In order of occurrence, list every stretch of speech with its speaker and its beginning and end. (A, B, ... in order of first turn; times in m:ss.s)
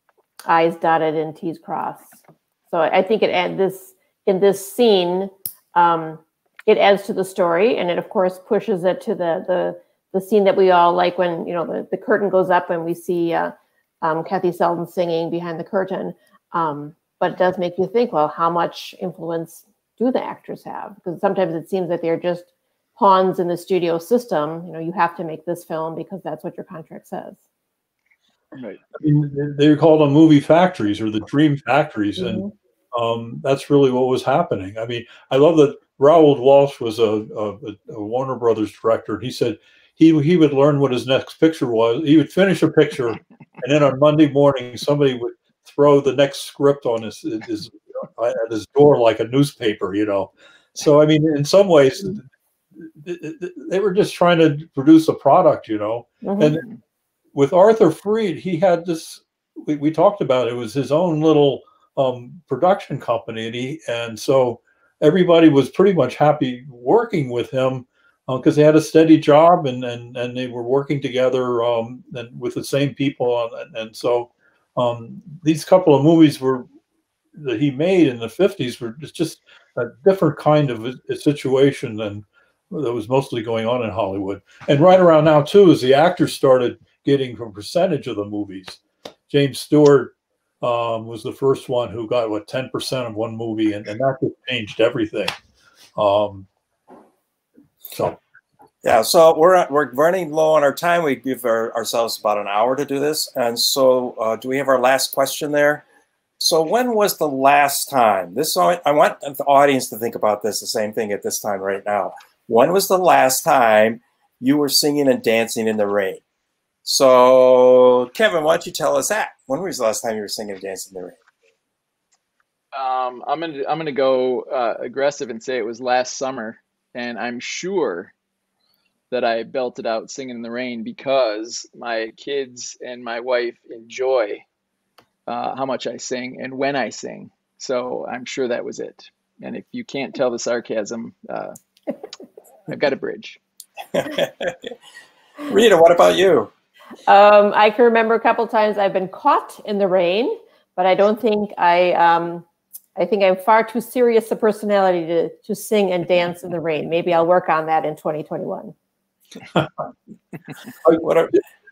0:00.4-0:27.4 A
0:28.5-0:28.8 B
0:28.9-0:56.6 C
0:32.2-0:32.5 A
0:56.2-0:56.6 A
0:57.3-1:16.6 C
1:17.4-1:35.3 C
1:36.0-1:36.5 C
1:37.9-1:38.2 C
1:38.8-1:45.8 D
1:46.4-1:56.2 D
1:56.8-2:01.2 D
2:02.7-2:08.1 B
2:09.1-2:14.4 B
2:15.3-2:21.5 B
2:22.7-2:23.4 B
2:23.9-2:24.7 D
2:25.5-2:26.5 D
2:27.1-2:32.4 A
2:33.0-2:38.7 A
2:41.0-2:41.4 D